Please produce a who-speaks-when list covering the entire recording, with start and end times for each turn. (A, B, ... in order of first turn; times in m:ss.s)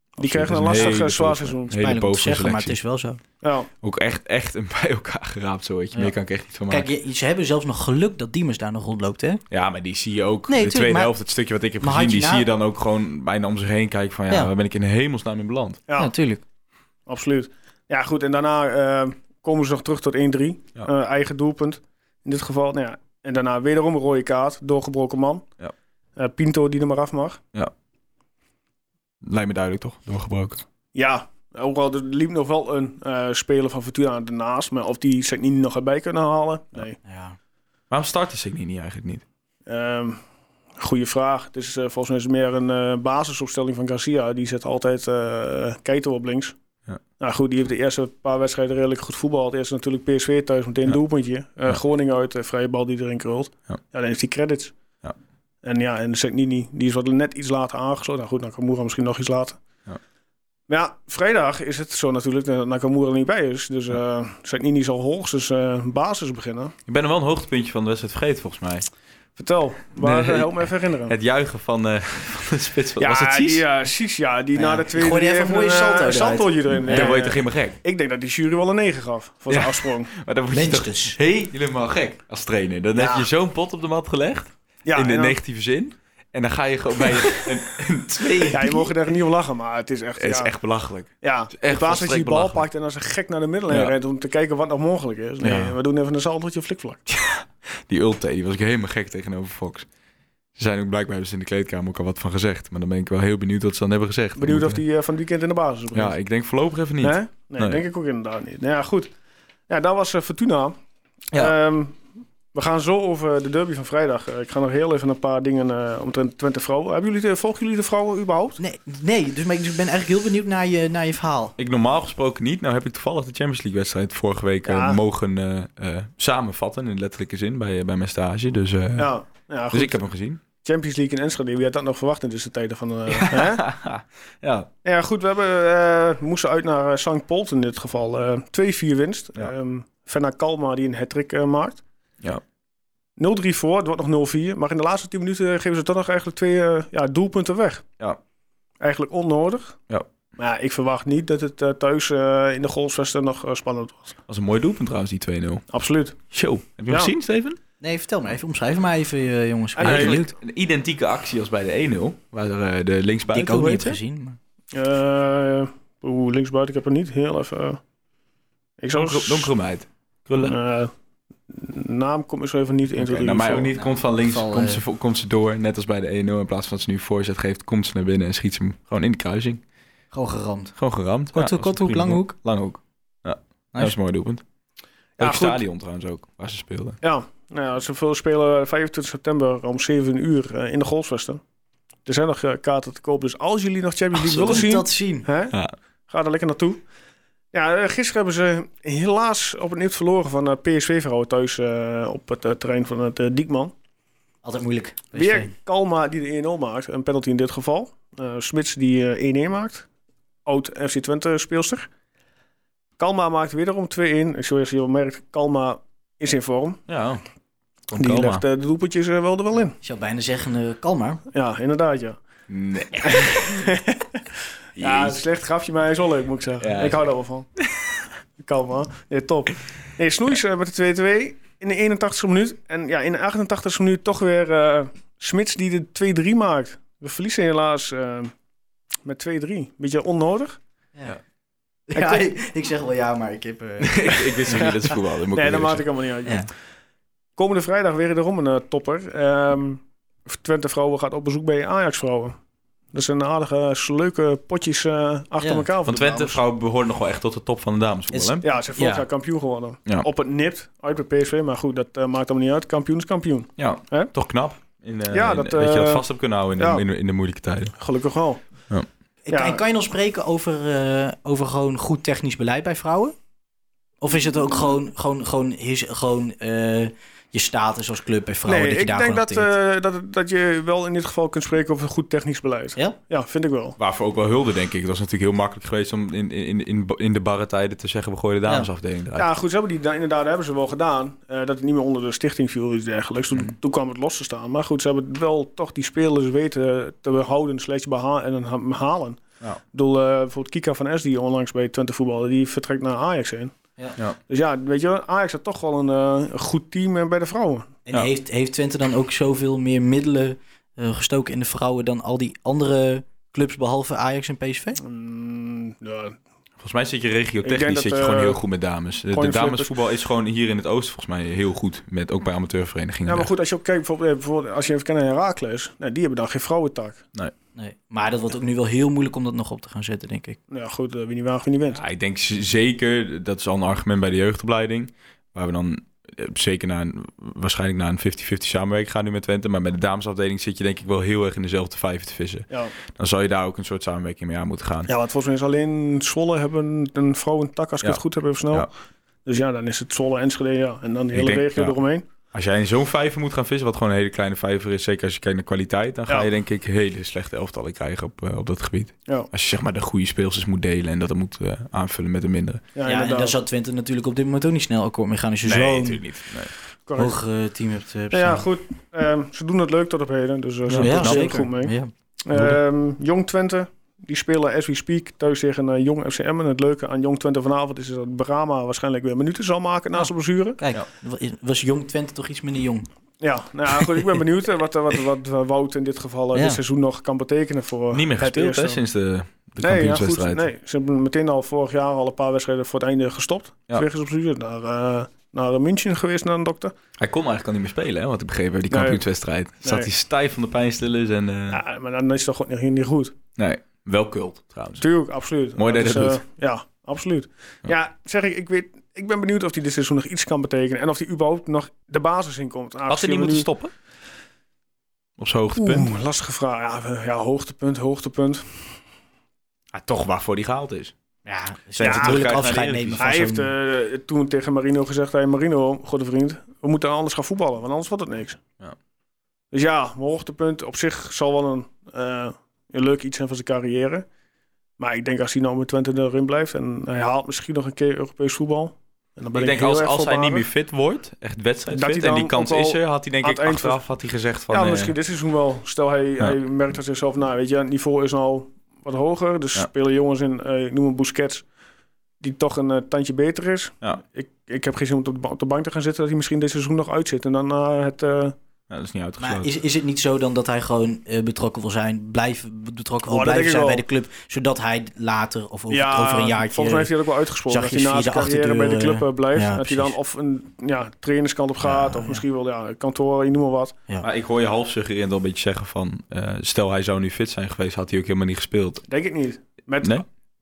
0:00.2-0:01.7 A
0:00.2-0:02.8 B
0:01.7-0:03.2 C
0:03.4-0:03.7 A
0:03.8-0:06.9 B
0:06.7-0:09.4 C
0:09.5-0:15.8 B
0:10.5-0:11.1 C
0:11.8-0:12.5 C
0:15.9-0:16.1 A
0:16.0-0:16.4 C
0:17.1-0:25.4 A
0:26.2-0:27.4 A
0:29.2-0:30.6 B
0:30.9-0:37.0 A
0:37.0-0:37.4 C
0:37.9-0:39.2 B
0:39.7-0:40.2 A
0:40.8-0:46.6 A
0:47.2-0:54.7 A
0:55.6-0:59.6 A
1:00.7-1:06.7 A
1:06.9-1:08.9 B
1:09.4-1:11.1 A
1:10.0-1:13.6 B
1:13.0-1:20.1 A
1:14.5-1:17.1 C
1:16.9-1:17.8 B
1:19.5-1:28.9 B
1:20.5-1:21.2 C
1:22.9-1:23.3 A
1:24.9-1:25.4 A
1:28.5-1:30.5 A
1:30.2-1:32.6 B
1:31.2-1:37.0 A
1:35.4-1:35.8 B
1:37.1-1:39.9 B
1:40.6-1:44.8 B
1:44.4-1:46.2 A
1:45.9-1:47.8 B
1:47.0-1:49.1 A
1:49.7-1:50.8 A
1:51.3-1:58.6 A
1:58.6-2:01.5 C
2:01.6-2:09.1 B
2:04.6-2:05.0 A
2:09.0-2:10.0 A
2:09.7-2:10.4 B
2:10.6-2:13.6 A
2:13.1-2:14.7 B
2:14.8-2:21.8 A
2:23.2-2:27.8 A
2:28.8-2:29.8 A
2:30.4-2:34.2 A
2:34.3-2:35.6 B
2:35.7-2:36.2 A
2:36.3-2:37.6 B
2:37.8-2:40.3 C
2:39.8-2:40.2 A
2:39.8-2:44.0 B
2:43.3-2:44.4 C
2:44.7-2:47.8 A
2:48.8-2:49.5 A
2:48.9-2:50.5 B
2:50.4-2:50.9 A
2:51.5-2:53.7 A
2:53.0-2:59.6 B
2:53.7-2:54.8 C
3:00.1-3:00.7 C
3:00.8-3:04.4 B
3:01.3-3:02.4 C
3:05.2-3:05.6 A
3:05.2-3:07.0 B
3:07.0-3:11.4 A
3:12.0-3:15.5 A
3:14.2-3:15.3 C
3:16.1-3:16.8 A
3:17.5-3:23.7 A
3:24.4-3:25.5 C
3:25.1-3:29.9 A
3:30.4-3:31.9 A
3:33.0-3:36.8 A
3:36.9-3:37.2 B
3:37.9-3:38.4 B
3:38.0-3:39.8 A
3:39.8-3:41.2 C
3:41.3-3:42.2 A
3:42.5-3:43.6 B
3:43.0-3:44.2 A
3:44.8-3:45.2 B
3:44.8-3:47.5 A
3:46.6-3:47.0 B
3:48.4-3:58.3 A
3:59.0-4:00.6 A
4:01.9-4:04.2 C
4:02.0-4:02.2 A
4:03.8-4:05.8 B
4:05.3-4:06.5 A
4:07.4-4:12.4 A
4:12.9-4:16.4 A
4:15.4-4:15.7 C
4:15.8-4:18.4 B
4:18.1-4:19.0 C
4:18.4-4:24.1 A
4:23.6-4:27.7 B
4:25.1-4:26.0 A
4:26.6-4:26.8 A
4:27.8-4:28.4 A
4:29.2-4:33.2 C
4:29.3-4:29.6 A
4:34.0-4:39.5 C
4:38.4-4:43.8 A
4:43.8-4:49.3 B
4:49.2-4:59.2 A
4:59.7-5:03.5 A
5:04.3-5:07.7 A
5:07.8-5:14.8 C
5:14.8-5:16.2 A
5:16.6-5:23.3 B
5:17.4-5:18.4 A
5:19.1-5:19.7 A
5:23.0-5:27.0 A
5:27.6-5:30.4 C
5:30.5-5:31.8 A
5:31.7-5:44.9 B
5:44.9-5:48.7 A
5:49.2-5:52.0 A
5:51.1-5:51.8 B
5:52.3-6:02.6 B
6:02.7-6:03.4 A
6:02.8-6:06.0 C
6:05.4-6:06.5 B
6:06.9-6:07.2 A
6:07.0-6:08.4 C
6:08.1-6:11.7 A
6:10.7-6:11.4 B
6:10.8-6:11.9 C
6:12.2-6:20.6 A
6:19.9-6:22.9 C
6:23.2-6:28.8 A
6:26.3-6:26.6 C
6:27.9-6:30.5 B
6:29.6-6:36.7 A
6:37.0-6:41.6 B
6:38.7-6:39.0 A
6:39.6-6:39.9 A
6:41.5-6:43.1 A
6:43.4-6:44.8 B
6:44.8-6:53.5 A
6:45.6-6:46.2 B
6:52.9-6:53.7 B
6:55.2-6:55.9 B
6:55.5-6:58.7 A
6:59.7-7:00.9 B
7:01.2-7:03.5 C
7:01.8-7:03.2 B
7:01.8-7:02.2 A
7:03.0-7:08.4 A
7:09.5-7:14.0 A
7:14.8-7:20.4 A
7:19.3-7:24.9 B
7:21.7-7:23.8 A
7:24.5-7:31.4 A
7:32.2-7:38.4 A
7:38.7-7:39.5 B
7:39.2-7:46.9 C
7:43.1-7:43.8 A
7:45.7-7:53.8 A
7:47.5-7:50.0 C
7:51.6-7:52.2 C
7:54.0-7:58.8 B
7:58.9-8:00.0 A